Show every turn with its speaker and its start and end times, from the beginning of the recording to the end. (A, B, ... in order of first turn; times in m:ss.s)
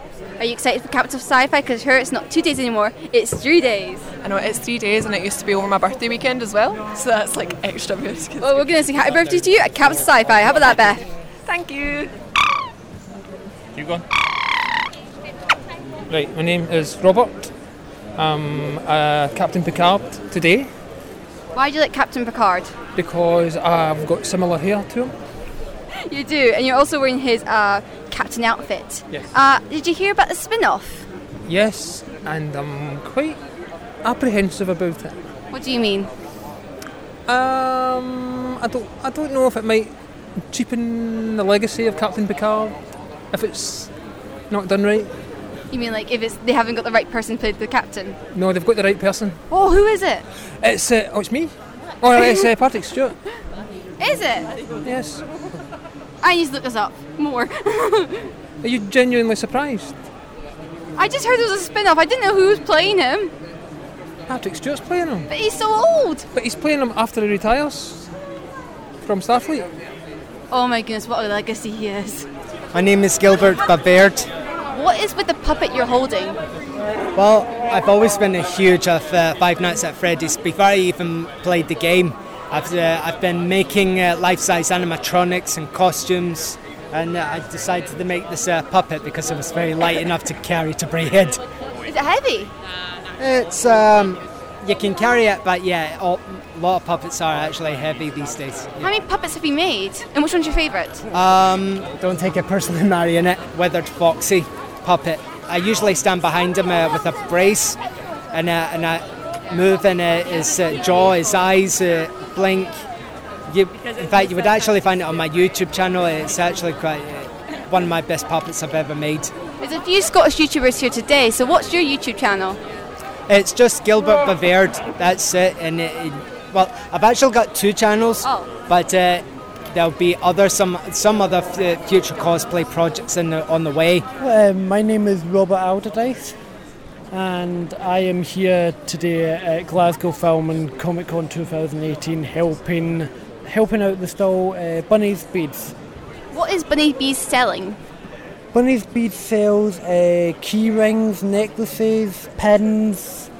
0:00.4-0:04.0 A
0:04.2-0:09.0 B
0:08.7-0:11.0 A
0:10.5-0:10.7 C
0:11.4-0:12.1 B
0:16.1-0:17.5 D
0:18.2-0:20.7 D
0:21.5-0:22.7 A
0:23.0-0:25.1 D
0:25.9-0:31.1 A
0:31.5-0:33.4 D
0:34.0-0:35.2 D
0:35.5-0:36.1 A
0:37.3-0:39.9 D
0:40.5-0:42.7 D
0:43.3-0:43.9 D
0:44.5-0:45.1 D
0:45.7-0:48.2 A
0:48.3-0:49.4 D
0:49.5-0:50.2 A
0:50.6-0:53.2 D
0:54.0-0:54.5 A
0:54.8-0:55.2 D
0:56.2-0:58.3 A
0:58.6-0:59.9 D
1:01.0-1:03.3 A
1:04.3-1:05.3 D
1:05.3-1:06.2 A
1:06.3-1:08.1 D
1:09.0-1:09.6 D
1:10.5-1:12.3 A
1:12.7-1:14.3 C
1:14.7-1:16.4 A
1:17.1-1:31.4 C
1:31.9-1:32.5 A
1:33.2-1:38.9 C
1:38.8-1:41.0 A
1:41.1-1:47.8 C
1:48.3-1:52.8 C
1:53.5-1:59.3 C
1:59.6-2:02.6 A
2:03.3-2:14.0 C
2:08.2-2:08.5 A
2:14.2-2:16.3 E
2:17.1-2:25.7 E
2:26.3-2:27.8 A
2:28.5-2:33.3 E